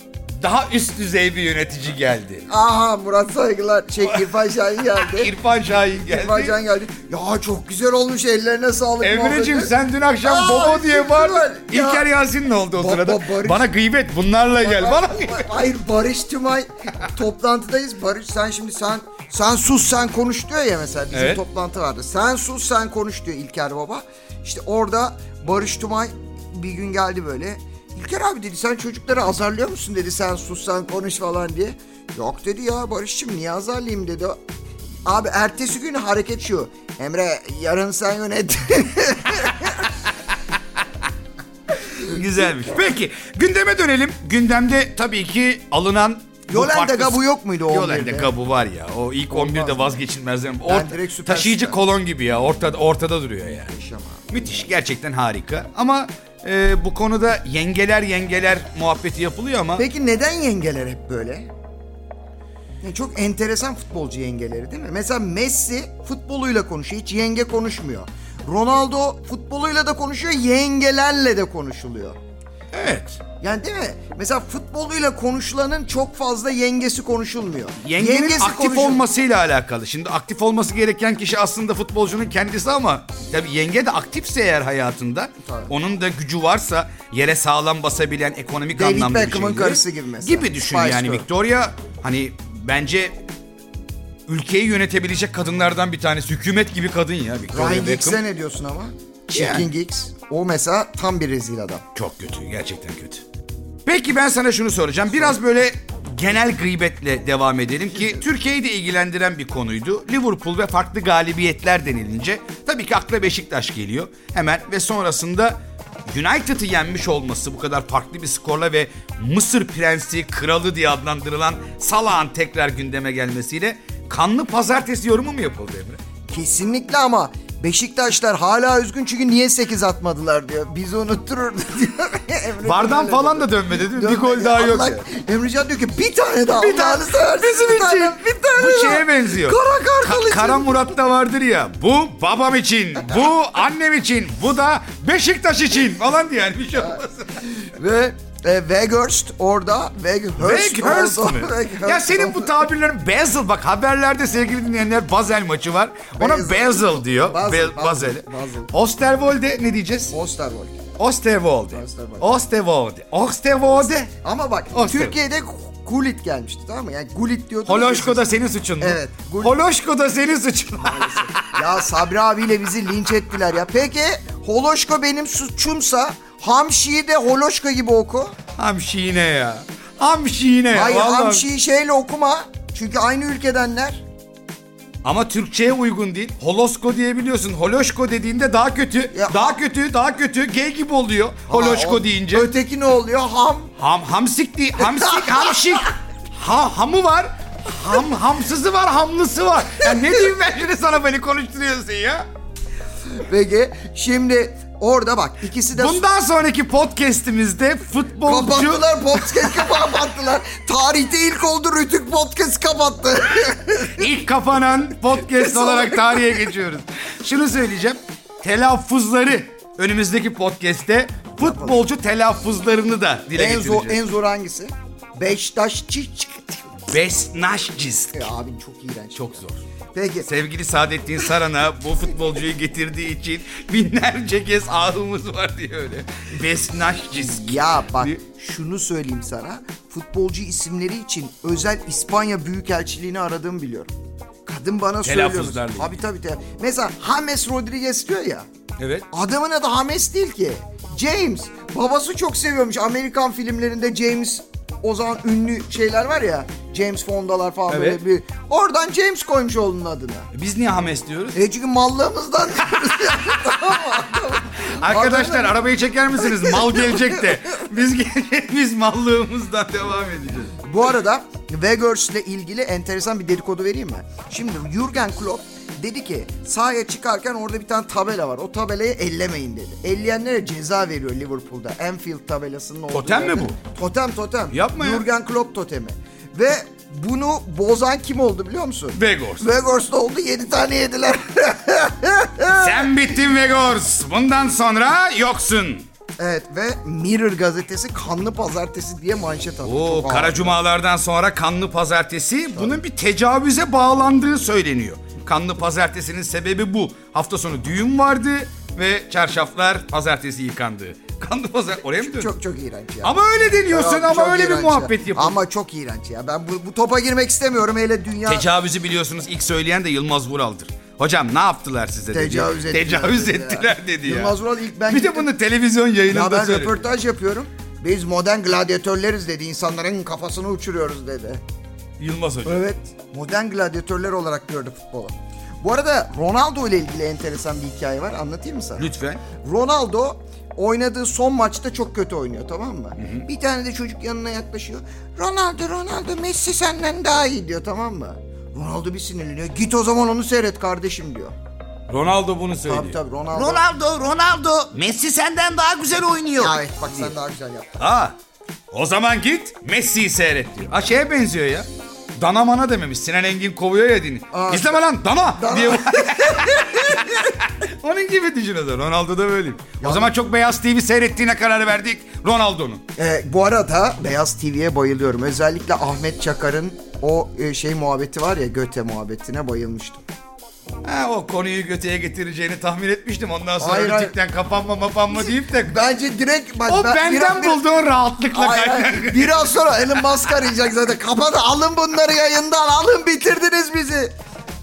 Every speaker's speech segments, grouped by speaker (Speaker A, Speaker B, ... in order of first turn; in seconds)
Speaker A: 0.4-2.5, 4.0-6.6, 9.0-15.5, 21.1-21.4, 42.0-53.7, 54.3-59.8, 72.7-73.2, 77.8-93.2, 94.3-98.2, 99.3-99.7, 102.0-103.2, 103.8-115.6, 116.1-126.0, 132.6-135.0, 136.5-147.4, 150.4-160.1, 161.0-164.1, 164.7-165.2, 167.7-171.6, 178.6-181.5, 185.0-192.6, 193.8-202.2, 205.7-209.8, 213.9-224.0, 226.9-228.3, 229.2-229.6, 230.2-238.2, 245.0-246.0, 248.8-249.1, 257.7-258.0, 260.3-261.4, 264.6-270.6, 282.9-283.6, 284.5-285.1, 288.9-289.5, 292.5-295.9, 299.6-312.3, 313.0-315.4, 318.3-324.4, 324.9-326.9, 332.0-332.6, 338.8-339.2, 343.0-343.2, 351.9-357.1, 357.8-358.1, 358.7-361.7, 362.2-372.8, 380.8-385.8, 386.7-389.9
Speaker B: 2.5-5.3, 6.0-12.1, 12.8-13.7, 14.6-34.4, 35.0-39.9, 46.5-48.3, 49.3-50.0, 50.6-51.8, 53.6-54.5, 59.8-61.5, 62.8-72.2, 73.4-79.0, 85.4-85.7, 88.7-91.3, 97.5-101.8, 126.3-140.8, 146.8-152.6, 156.2-158.7, 160.1-160.9, 161.7-162.4, 164.1-168.3, 168.8-169.6, 170.8-178.3, 180.7-184.0, 189.1-189.6, 191.5-193.7, 203.2-206.1, 208.2-214.1, 215.3-216.5, 221.4-221.8, 223.3-226.7, 228.1-229.4, 229.9-230.3, 237.1-243.9, 244.5-248.5, 249.1-260.3, 261.3-265.6, 270.6-292.9, 296.2-300.6, 312.0-318.5, 322.1-325.3, 326.1-331.4, 332.4-351.3, 352.6-353.6, 356.4-357.9, 364.3-367.3, 369.8-370.1, 372.9-380.0, 383.6-384.1, 385.1-387.6, 388.3-394.1